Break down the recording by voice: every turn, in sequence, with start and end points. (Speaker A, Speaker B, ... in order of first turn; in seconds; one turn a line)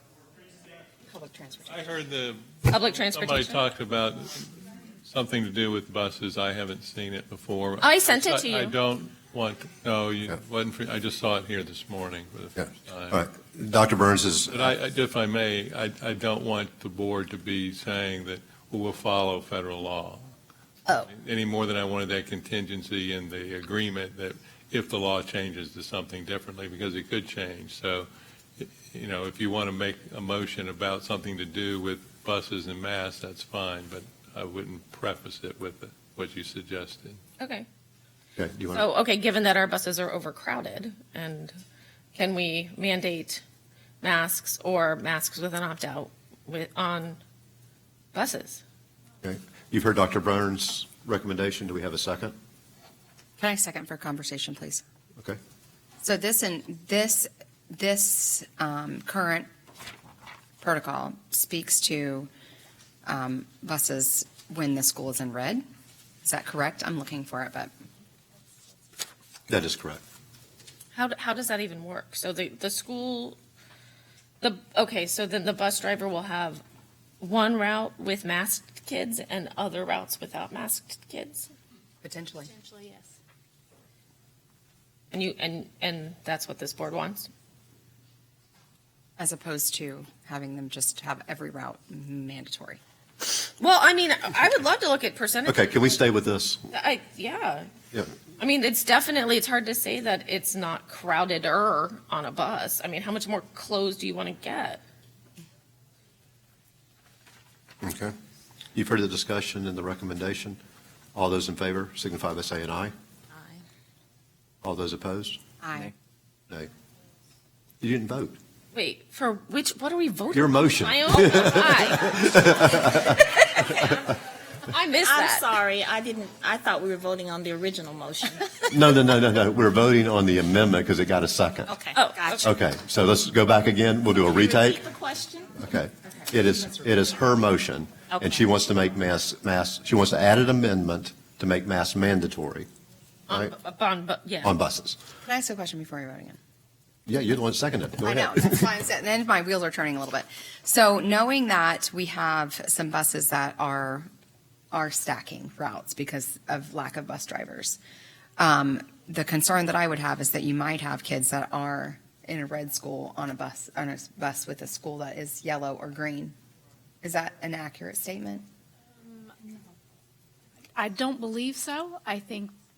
Speaker A: 1.1-1.8
Speaker B: 1.7-13.2
Speaker C: 2.7-3.6
Speaker C: 7.8-8.7
Speaker D: 13.1-14.7
Speaker B: 14.5-20.2
Speaker B: 21.1-37.2
Speaker C: 37.4-37.6
Speaker D: 38.4-38.8
Speaker C: 38.7-41.5
Speaker C: 42.1-43.4
Speaker C: 44.0-47.2
Speaker C: 48.1-48.6
Speaker D: 49.2-52.3
Speaker A: 53.4-54.8
Speaker A: 56.0-59.5
Speaker A: 60.6-62.3
Speaker A: 63.0-65.6
Speaker A: 66.2-67.7
Speaker D: 69.5-70.0
Speaker C: 70.9-73.4
Speaker C: 74.4-76.6
Speaker C: 77.2-81.5
Speaker A: 82.0-82.5
Speaker E: 82.5-83.0
Speaker C: 85.1-87.3
Speaker A: 89.2-92.8
Speaker C: 93.6-96.0
Speaker D: 95.5-96.6
Speaker C: 96.7-97.7
Speaker C: 98.4-104.8
Speaker D: 107.8-108.1
Speaker D: 108.7-110.6
Speaker D: 111.1-112.9
Speaker D: 114.6-115.4
Speaker A: 115.6-115.9
Speaker D: 117.8-118.4
Speaker C: 118.7-124.0
Speaker D: 120.3-123.1
Speaker C: 124.7-125.5
Speaker F: 125.0-128.5
Speaker D: 128.7-131.7
Speaker F: 131.7-132.5
Speaker C: 131.9-132.5
Speaker D: 132.4-134.8
Speaker F: 134.2-135.5
Speaker D: 135.6-142.7
Speaker C: 143.3-144.5
Speaker D: 143.3-143.5
Speaker D: 144.4-145.0
Speaker A: 145.2-146.4
Speaker D: 147.1-148.7
Speaker A: 148.0-154.1
Speaker A: 154.7-157.8
Speaker A: 158.4-166.3
Speaker A: 167.0-168.4
Speaker E: 170.8-172.5